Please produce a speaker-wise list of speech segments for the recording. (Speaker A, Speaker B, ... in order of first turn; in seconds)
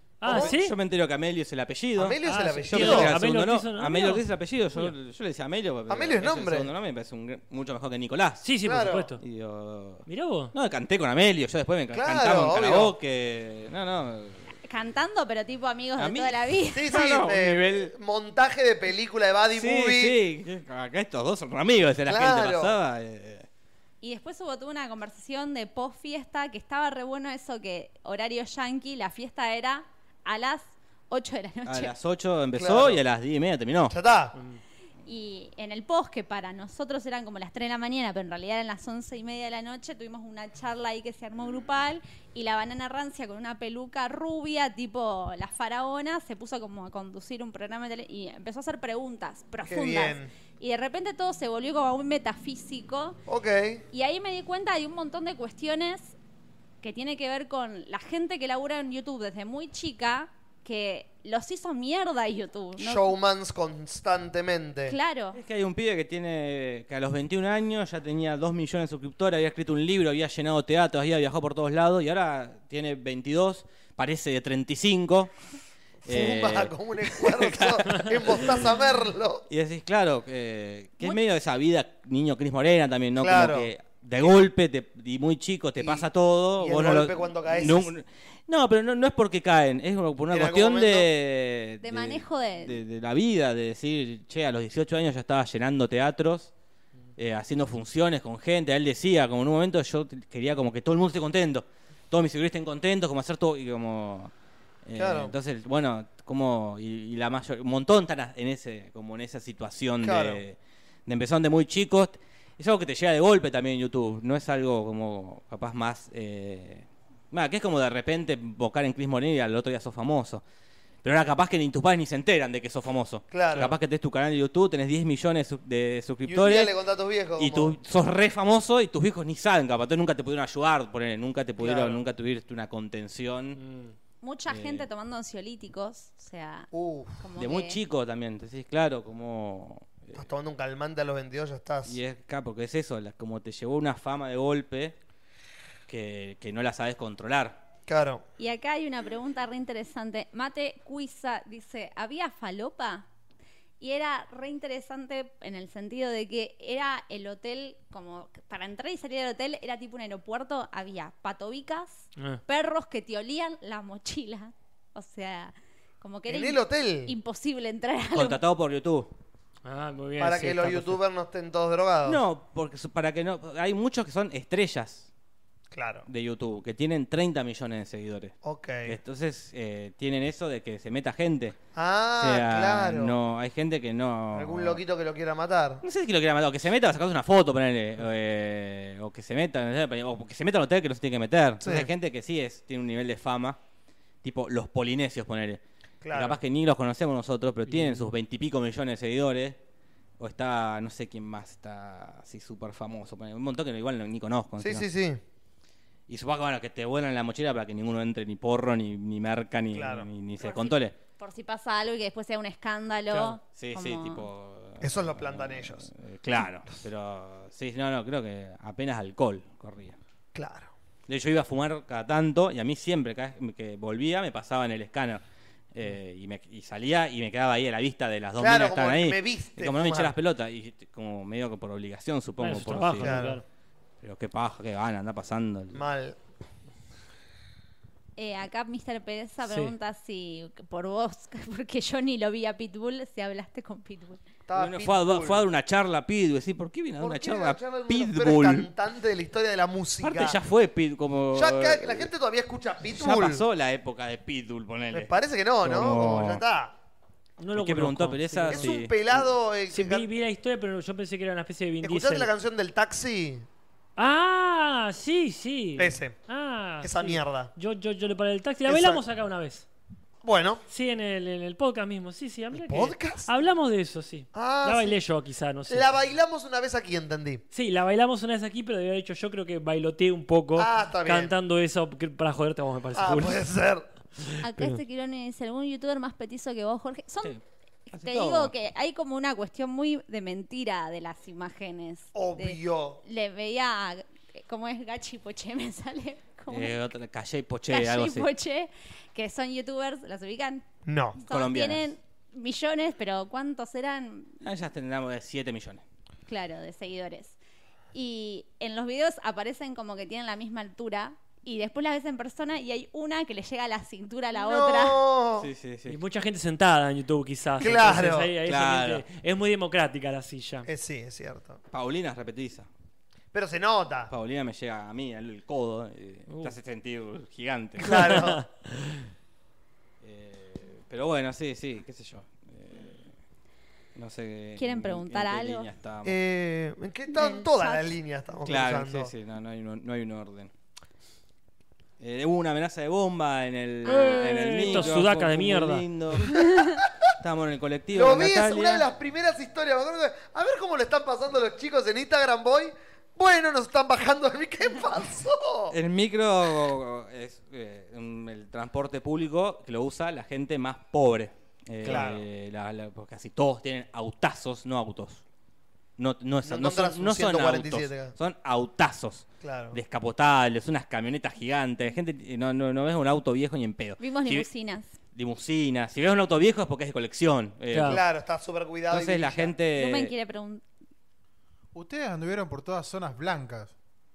Speaker A: 0.2-0.7, 2.2-4.9, 8.4-9.2, 10.1-10.5, 34.4-34.6, 133.6-133.9, 169.7-171.0, 197.7-198.1, 232.4-233.4, 239.4-239.7, 257.4-258.8, 259.7-262.3, 264.0-269.6, 270.7-275.9, 277.5-283.4, 284.3-284.8, 315.9-320.7, 326.3-326.6, 327.9-329.0, 343.9-345.9, 377.7-378.0
Speaker B: 0.2-8.4, 9.1-14.5, 16.0-17.9, 19.6-23.5, 31.6-33.9, 65.3-75.3, 76.0-78.6, 79.5-96.5, 97.2-104.3, 104.8-120.4, 121.0-126.7, 127.4-133.6, 134.5-134.9, 137.4-140.2, 141.9-144.9, 145.9-147.6, 168.1-169.1, 172.1-175.1, 176.1-181.6, 182.2-184.8, 185.8-193.6, 194.2-195.6, 196.1-199.6, 200.2-204.8, 206.1-210.9, 213.4-220.0, 221.1-225.2, 225.7-233.2, 234.0-235.8, 244.6-248.7, 250.0-252.1, 252.9-256.4, 257.5-258.9, 287.2-288.5, 296.5-298.3, 301.2-301.9, 304.4-305.8, 315.4-316.0, 318.4-319.0, 321.7-322.7, 324.1-328.2, 330.0-333.1, 333.9-336.1, 338.4-340.5, 342.0-346.4, 347.2-348.9, 355.7-365.2, 366.0-374.4, 375.1-378.0, 378.9-380.1
Speaker C: 0.3-0.6, 1.9-3.1, 5.9-6.7, 8.6-9.1, 11.9-12.9, 16.7-20.2, 22.1-22.8, 32.5-33.0, 33.9-34.3, 49.6-50.3, 53.3-53.8, 62.8-65.0, 76.0-79.5, 83.2-84.4, 85.8-86.1, 86.6-87.9, 90.3-91.1, 105.0-105.3, 110.0-110.4, 123.3-123.7, 126.2-127.8, 131.6-132.0, 136.7-137.2, 140.2-142.0, 147.9-148.2, 166.3-167.1, 170.2-172.2, 175.7-176.1, 178.4-179.0, 181.7-183.2, 184.3-185.8, 191.6-191.9, 196.0-196.4, 204.6-205.2, 209.7-210.1, 214.8-215.9, 220.3-220.7, 228.4-230.1, 233.0-233.4, 235.7-236.2, 244.5-245.5, 247.0-250.4, 251.3-253.4, 254.9-256.7, 258.5-260.1, 261.8-263.5, 265.8-266.2, 266.8-267.5, 268.6-269.0, 270.2-270.6, 272.5-273.3, 274.3-275.0, 275.7-277.4, 280.6-281.3, 282.9-283.9, 292.1-293.0, 300.9-301.2, 314.3-315.5, 317.6-318.3, 320.6-321.6, 323.3-324.1, 327.8-328.4, 336.0-339.1, 346.4-346.9, 347.9-355.8, 361.8-362.2, 366.4-368.1, 369.4-369.8, 377.9-379.6
Speaker D: 14.7-16.9, 24.0-31.9, 35.1-53.2, 53.9-56.1, 56.8-63.1, 64.9-65.4, 91.8-92.8, 134.2-137.8, 148.4-153.1, 153.8-168.4, 210.4-214.3, 238.2-244.2, 284.4-287.4, 287.9-296.8, 297.7-300.6, 301.3-304.4, 306.3-307.4, 307.9-315.0, 334.6-335.7, 337.1-337.9, 374.0-374.9, 379.7-380.6
Speaker E: 381.7-383.7